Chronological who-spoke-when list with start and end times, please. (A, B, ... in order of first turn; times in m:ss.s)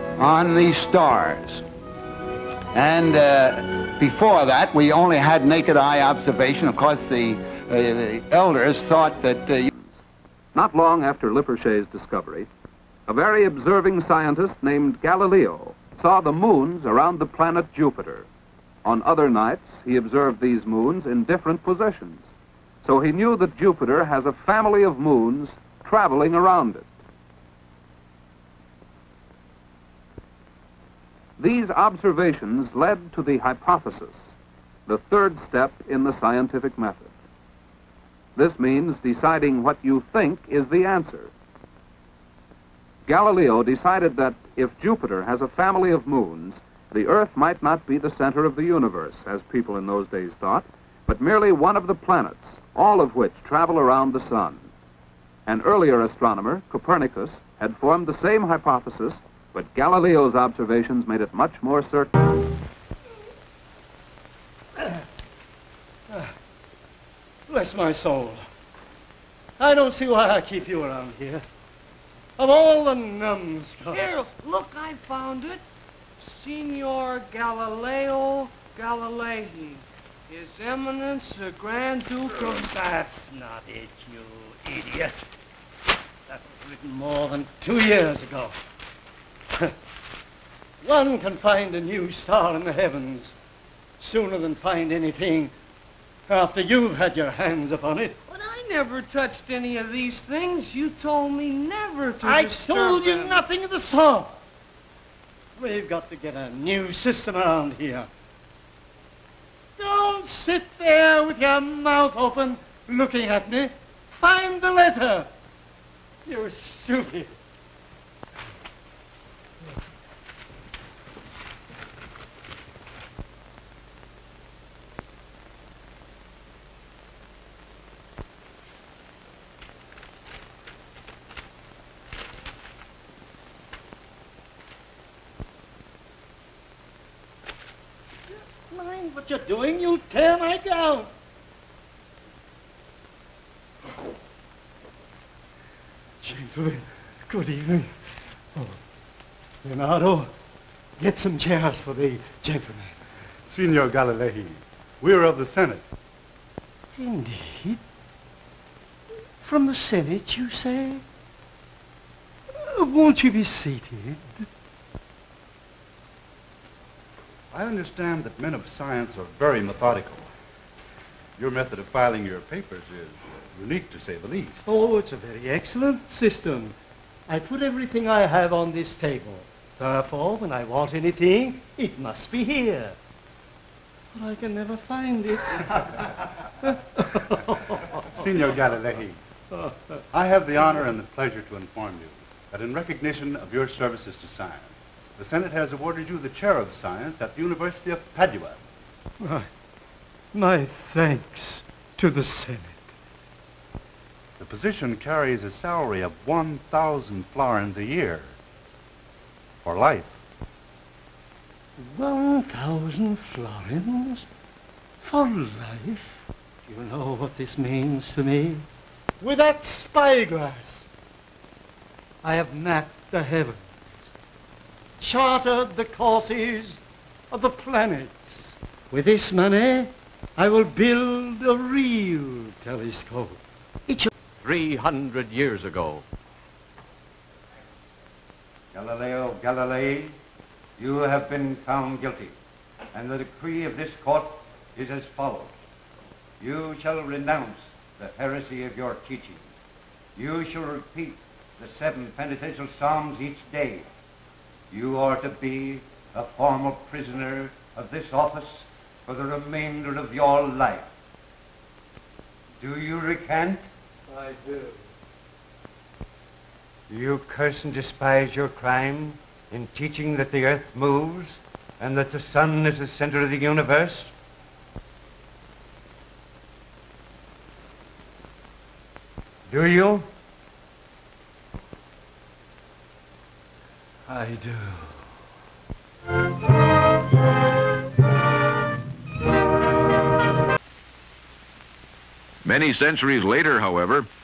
0:00.2-0:01.6 A
0:02.7-0:09.7 A
0:10.5-0:12.5 B
0:13.1-0:18.3 B
0:18.8-0:22.2 B
0:22.8-0:26.8 B
0:31.4-0:34.2 B
0:34.9-0:37.1 B
0:38.4-0:41.3 B
0:43.1-0:54.7 B
0:55.5-1:02.1 B
1:07.5-1:08.4 C
1:09.6-1:11.4 C
1:12.4-1:14.1 C
1:13.9-1:15.6 D
1:16.2-1:22.4 D
1:22.3-1:25.2 C
1:26.3-1:28.5 C
1:30.8-1:33.3 C
1:34.0-1:35.5 C
1:36.3-1:38.2 C
1:38.3-1:43.4 D
1:42.2-1:44.4 C
1:45.6-1:48.1 C
1:49.8-1:55.3 C
1:56.2-1:57.3 C
2:18.6-2:21.1 C
2:26.2-2:27.9 C
2:28.5-2:28.8 C
2:29.6-2:30.3 C
2:31.0-2:33.0 C
2:33.5-2:35.8 E
2:36.9-2:37.8 C
2:39.4-2:41.0 C
2:42.5-2:44.4 C
2:47.5-2:50.3 E
2:51.4-2:54.7 E
2:54.6-2:56.7 C
2:57.3-3:03.0 C
3:04.1-3:08.6 C
3:08.1-3:09.2 E
3:09.5-3:10.0 C
3:10.1-3:18.6 E
3:19.2-3:19.5 C
3:20.3-3:22.8 C
3:24.4-3:28.3 E
3:29.6-3:30.2 E
3:31.8-3:34.3 C
3:35.0-3:38.6 C
3:39.2-3:40.9 C
3:42.2-3:43.7 C
3:45.0-3:46.8 C
3:47.3-3:54.1 C
3:54.4-3:56.0 F
3:58.7-4:00.1 G
4:00.8-4:02.3 G
4:02.9-4:05.5 G
4:06.4-4:09.4 G
4:10.2-4:13.9 G
4:14.7-4:20.9 G
4:22.6-4:23.6 G
4:24.1-4:24.8 C
4:26.9-4:34.1 G
4:39.5-4:40.0 G
4:44.1-4:44.8 C
4:52.4-4:54.1 F